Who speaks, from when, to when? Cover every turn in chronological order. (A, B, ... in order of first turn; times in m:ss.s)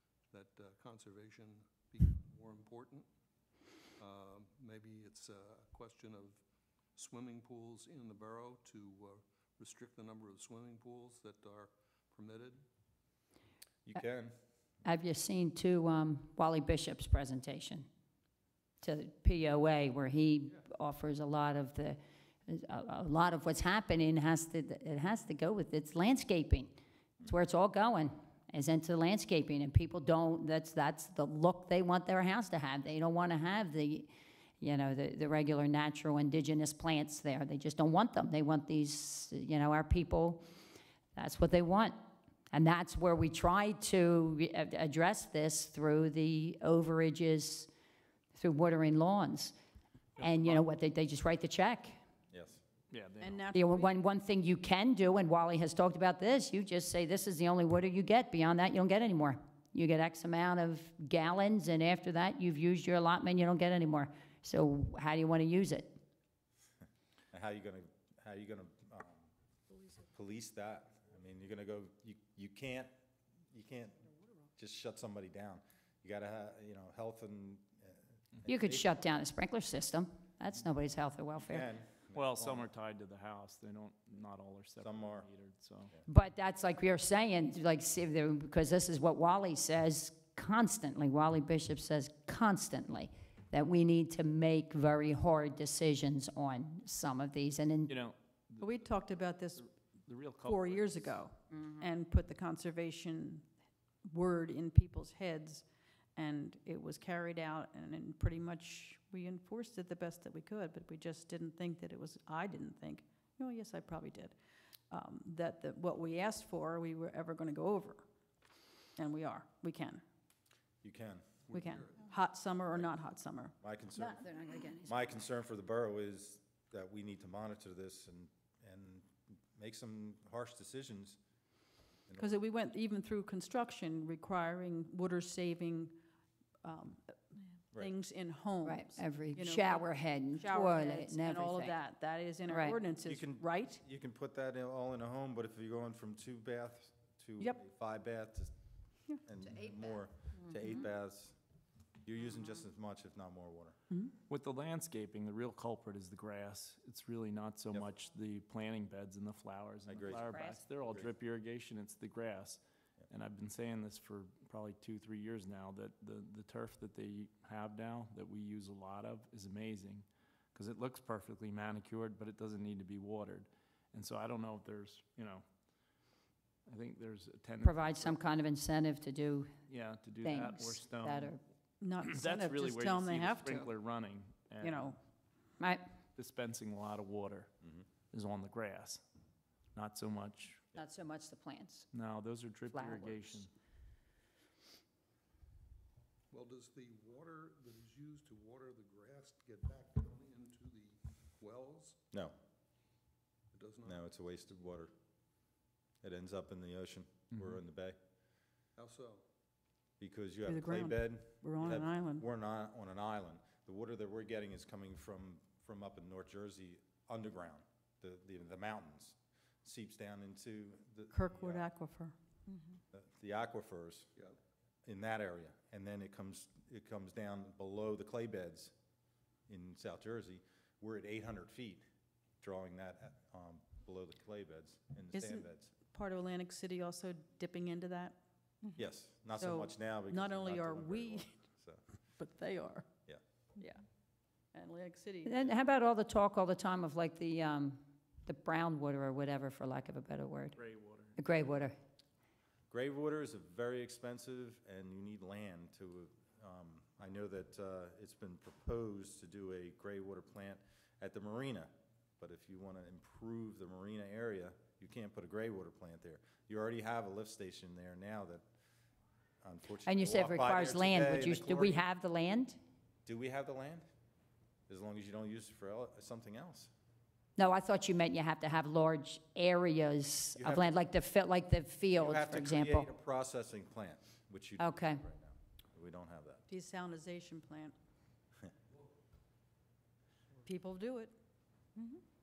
0:00.3-0:03.1 A
0:04.0-0:06.4 A
0:07.0-0:12.6 A
0:13.9-0:14.3 B
0:14.8-0:17.9 C
0:18.8-0:34.1 C
0:34.6-0:40.4 C
0:41.2-0:41.9 C
0:42.5-0:47.7 C
0:48.4-0:49.5 C
0:50.2-0:50.6 D
0:50.2-0:52.0 C
0:52.3-0:52.6 B
0:52.9-0:53.4 D
0:53.2-0:53.9 E
0:53.5-1:06.0 C
1:07.3-1:09.3 B
1:10.1-1:12.9 B
1:13.5-1:19.0 B
1:18.5-1:21.7 C
1:21.4-1:22.7 B
1:22.1-1:25.9 D
1:24.8-1:25.3 B
1:26.1-1:37.9 C
1:37.9-1:38.8 D
1:38.6-1:39.7 E
1:39.6-1:41.2 D
1:40.4-1:43.4 E
1:41.5-1:41.9 C
1:44.0-1:45.6 E
1:46.2-1:54.4 E
1:54.9-1:58.0 E
1:59.0-2:00.0 E
2:00.8-2:01.4 B
2:01.5-2:02.1 A
2:01.5-2:03.5 E
2:03.6-2:04.3 B
2:04.0-2:05.1 C
2:04.8-2:11.2 B
2:12.1-2:12.4 B
2:12.2-2:16.0 E
2:16.6-2:23.8 E
2:18.6-2:21.8 C
2:22.5-2:22.8 C
2:23.0-2:28.5 B
2:29.2-2:31.4 B
2:30.4-2:30.7 C
2:32.0-2:33.8 B
2:34.3-2:55.4 D
2:39.9-2:41.1 B
2:40.1-2:40.6 C
2:56.7-2:58.2 D
2:57.6-2:59.5 C
2:59.7-3:01.4 D
3:00.2-3:01.4 C
3:01.8-3:03.7 E
3:02.0-3:05.0 D
3:04.6-3:05.0 E
3:06.2-3:07.5 D
3:08.1-3:09.0 D
3:09.8-3:10.7 D
3:10.7-3:11.9 C
3:11.9-3:13.5 D
3:12.7-3:13.4 C
3:16.3-3:22.0 A
3:23.5-3:24.1 A
3:23.8-3:24.9 B
3:26.0-3:28.0 B
3:28.8-3:29.2 A
3:30.0-3:41.7 B
3:30.5-3:32.2 E
3:41.1-3:42.6 E
3:42.9-3:44.1 B
3:44.8-3:48.7 B
3:49.5-3:51.8 B
3:52.4-3:55.7 B
3:55.1-3:58.8 E
3:58.8-4:01.8 B
3:59.4-4:01.3 E
4:02.2-4:02.9 E
4:03.6-4:03.8 E
4:04.5-4:05.4 E
4:05.2-4:10.6 C
4:10.6-4:11.2 D
4:11.2-4:11.7 C
4:12.7-4:28.4 B
4:29.4-4:31.8 B
4:29.8-4:32.6 C
4:33.1-4:33.8 B
4:34.7-4:36.7 B
4:37.4-4:42.9 C
4:40.4-4:40.8 B
4:41.9-4:46.4 B
4:44.6-4:45.0 C
4:46.5-4:47.7 E
4:50.4-4:51.1 E
4:51.8-4:52.0 E